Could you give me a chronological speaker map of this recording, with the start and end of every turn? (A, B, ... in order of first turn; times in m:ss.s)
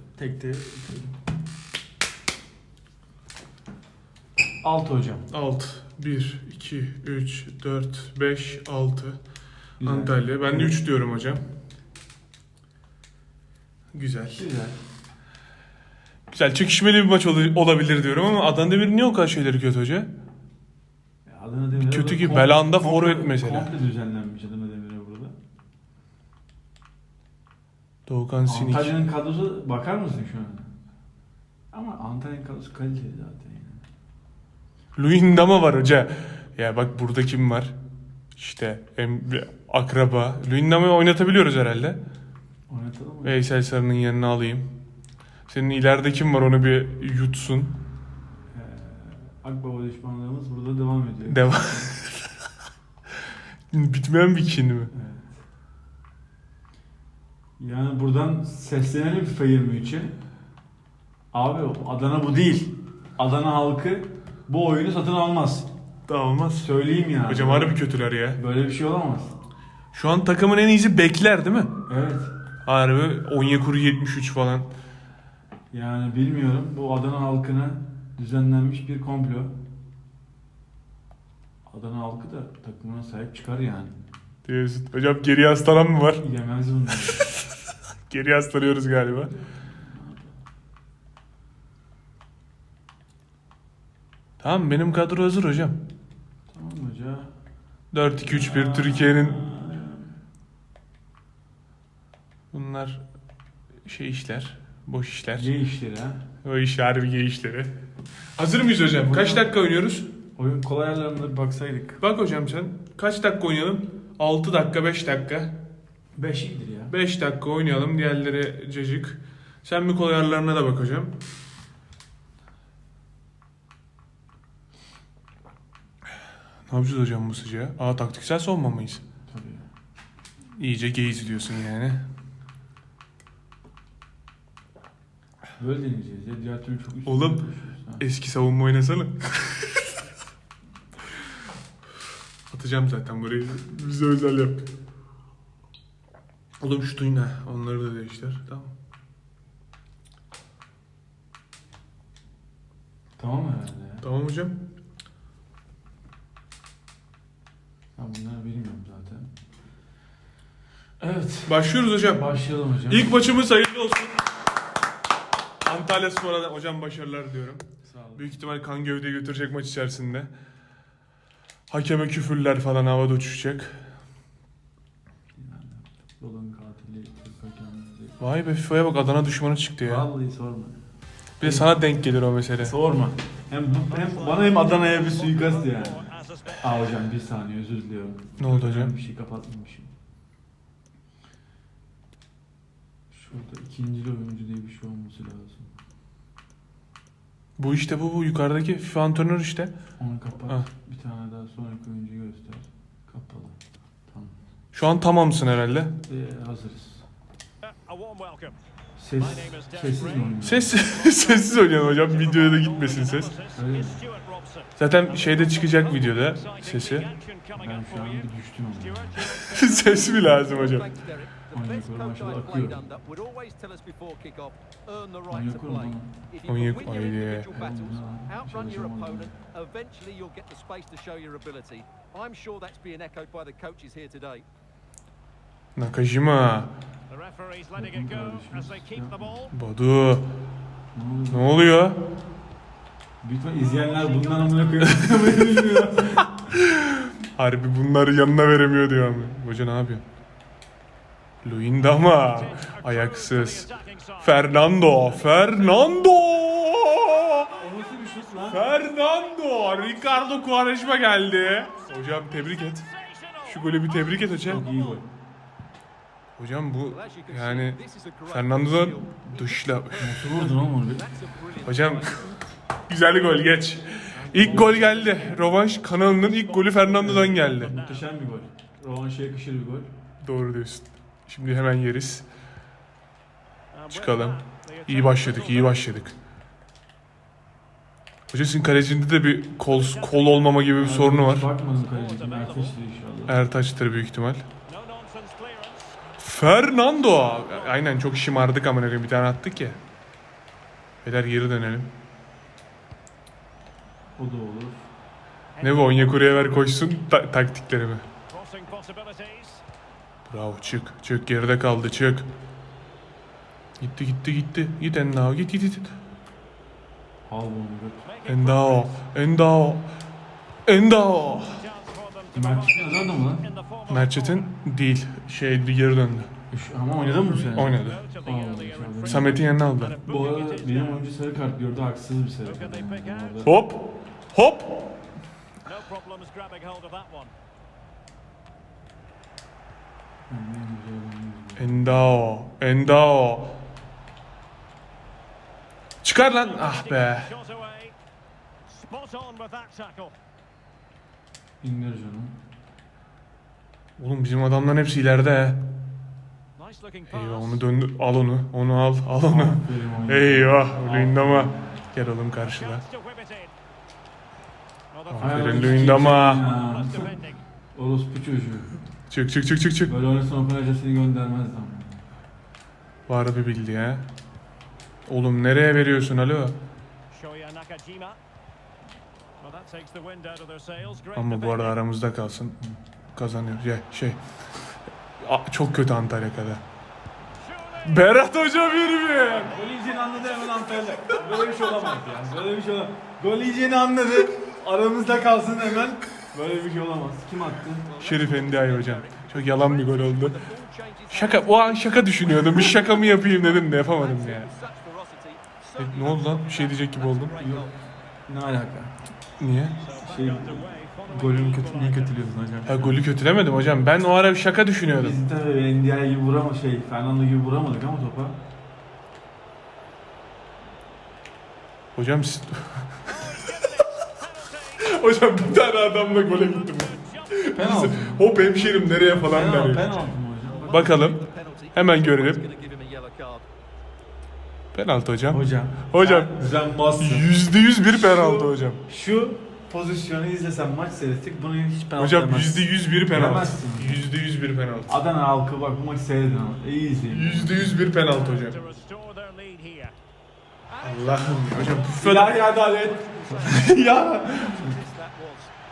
0:00.1-0:01.2 A
0:04.6-0:05.3 A
0:05.3-0:09.2 B
0:09.8-0:10.8 A
0:09.8-0:11.4 B
0:13.9-0:14.4 B
0:14.3-0:14.8 A
0:16.3-0:20.1 B
0:21.2-0:25.3 A
0:21.8-0:23.7 B
0:28.1-0:29.0 B
0:28.5-0:30.7 A
0:31.7-0:33.8 A
0:35.0-0:37.8 B
0:38.4-0:42.0 B
0:42.7-0:43.4 A
0:43.2-0:44.7 B
0:45.5-0:47.8 B
0:48.5-0:51.9 A
0:51.3-0:52.3 B
0:53.7-0:54.9 B
0:54.9-0:55.4 A
0:57.6-1:00.1 A
1:01.3-1:05.7 A
1:06.1-1:06.7 B
1:06.6-1:07.8 A
1:07.3-1:08.4 B
1:08.3-1:09.4 A
1:09.9-1:11.7 B
1:11.9-1:12.3 A
1:12.6-1:14.7 B
1:15.7-1:19.5 A
1:21.7-1:24.0 A
1:24.4-1:26.2 B
1:26.2-1:27.3 A
1:28.1-1:29.3 B
1:29.2-1:30.4 A
1:34.4-1:35.8 B
1:36.5-1:37.3 A
1:37.9-1:39.4 B
1:38.2-1:40.1 A
1:42.5-1:43.0 B
1:43.8-1:45.5 B
1:45.3-1:46.2 A
1:46.4-1:47.8 B
1:48.4-1:50.1 B
1:49.0-1:49.5 A
1:50.4-1:52.0 A
1:52.0-1:55.6 B
1:56.2-1:56.9 A
1:56.9-2:01.1 B
2:06.7-2:09.0 B
2:09.3-2:09.7 A
2:10.6-2:12.0 B
2:15.6-2:18.0 A
2:17.0-2:19.7 B
2:22.5-2:24.6 B
2:26.6-2:28.7 B
2:33.2-2:34.0 A
2:34.0-2:34.6 B
2:38.0-2:39.3 A
2:41.0-2:43.2 A
2:41.4-2:42.3 B
2:42.9-2:44.2 B
2:45.6-2:50.3 B
2:47.8-2:48.3 A
2:51.7-2:53.8 B
2:55.3-2:58.2 A
2:58.2-3:00.1 B
2:59.8-3:00.8 A
3:01.4-3:02.7 B
3:01.4-3:01.7 A
3:02.6-3:09.9 A
3:03.9-3:06.6 C
3:08.4-3:08.9 B
3:13.1-3:15.7 A
3:17.6-3:19.7 B
3:20.0-3:23.6 A
3:24.1-3:24.3 A
3:24.7-3:26.0 B
3:26.1-3:27.0 A
3:27.7-3:28.6 C
3:29.0-3:30.8 A
3:29.3-3:34.6 C
3:30.4-3:33.3 B
3:33.6-3:34.0 A
3:34.8-3:37.1 B
3:35.2-3:38.2 C
3:37.6-3:39.3 A
3:39.4-3:40.9 B
3:40.6-3:44.5 D
3:41.5-3:42.9 A
3:45.3-3:46.1 A
3:46.4-3:47.7 D
3:46.4-3:47.5 B
3:47.4-3:49.4 A
3:48.4-3:54.4 D
3:55.7-3:56.7 B
3:57.1-3:59.5 C
3:57.7-3:59.4 A
3:59.5-4:00.3 B
4:00.9-4:01.6 A
4:01.3-4:02.0 B
4:03.2-4:06.3 A
4:04.5-4:04.8 C
4:06.5-4:10.0 B
4:11.4-4:13.7 B
4:12.3-4:14.2 C
4:14.2-4:17.6 B
4:17.6-4:18.6 A
4:18.5-4:22.9 B
4:23.4-4:24.6 B
4:24.5-4:25.1 A
4:26.4-4:30.5 B
4:27.0-4:29.1 D
4:30.0-4:31.1 A
4:31.3-4:31.7 D
4:31.6-4:32.3 B
4:32.9-4:37.8 B
4:34.1-4:35.0 A
4:34.6-4:35.4 C
4:36.1-4:38.0 C
4:37.0-4:39.9 A
4:40.2-4:42.3 B
4:43.7-4:45.7 C
4:43.9-4:46.1 B
4:48.3-4:51.5 B
4:49.8-4:50.6 C
4:50.8-4:53.3 A
4:51.8-4:52.7 C
4:53.3-4:54.4 B
4:54.7-4:55.8 C
4:56.2-4:59.8 B
5:01.0-5:01.9 B
5:04.2-5:04.9 A
5:05.6-5:06.6 C
5:05.6-5:08.0 B
5:08.3-5:09.6 C
5:10.2-5:12.3 B
5:13.8-5:15.9 B
5:17.2-5:18.0 A
5:18.0-5:18.9 C
5:18.3-5:19.9 B
5:20.6-5:21.6 B
5:21.6-5:24.4 C
5:22.3-5:23.5 A
5:23.9-5:26.3 B
5:26.5-5:29.4 A
5:27.1-5:31.0 C
5:27.5-5:28.0 B
5:29.0-5:30.0 B
5:30.0-5:33.5 A
5:32.5-5:33.4 C
5:33.4-5:34.9 B
5:35.6-5:37.3 C
5:40.3-5:42.2 A
5:41.6-5:43.6 B
5:46.0-5:47.3 B
5:46.6-5:47.9 C
5:48.7-5:50.1 C
5:51.6-5:52.3 A
5:54.0-5:55.6 B
5:56.6-5:57.5 C
5:57.1-6:02.8 B
5:59.3-6:01.7 A
6:02.4-6:03.5 C
6:04.9-6:07.4 C
6:05.1-6:06.5 B
6:05.2-6:07.1 A
6:07.7-6:08.7 A
6:09.1-6:09.9 B
6:09.8-6:12.0 A
6:13.1-6:14.1 B
6:15.0-6:16.6 B
6:17.1-6:18.2 C
6:19.4-6:21.7 C
6:21.1-6:22.6 B
6:23.1-6:24.2 B
6:25.2-6:26.6 B
6:27.6-6:27.8 C
6:27.8-6:29.5 B
6:29.4-6:37.9 A
6:37.9-6:41.9 D
6:38.0-6:40.4 B
6:41.1-6:44.5 B
6:43.0-6:47.6 D
6:45.8-6:47.4 B
6:47.3-6:47.7 A
6:48.3-6:48.9 A
6:49.4-6:49.8 B
6:49.8-6:52.1 C
6:50.0-6:53.0 A
6:52.6-6:55.2 B
6:54.9-6:58.4 A
7:02.0-7:03.5 B
7:03.1-7:04.7 C
7:04.8-7:10.0 B
7:05.9-7:07.3 C
7:07.5-7:08.2 A
7:09.3-7:11.0 A
7:10.5-7:13.4 D
7:10.7-7:11.2 B
7:11.7-7:12.4 B
7:14.7-7:16.4 B
7:15.3-7:17.3 A
7:17.0-7:18.8 B
7:18.1-7:24.1 A
7:22.0-7:24.9 B
7:24.9-7:27.8 A
7:27.1-7:28.6 B
7:28.0-7:30.0 C
7:30.7-7:35.5 D
7:30.8-7:32.5 B
7:31.9-7:34.8 A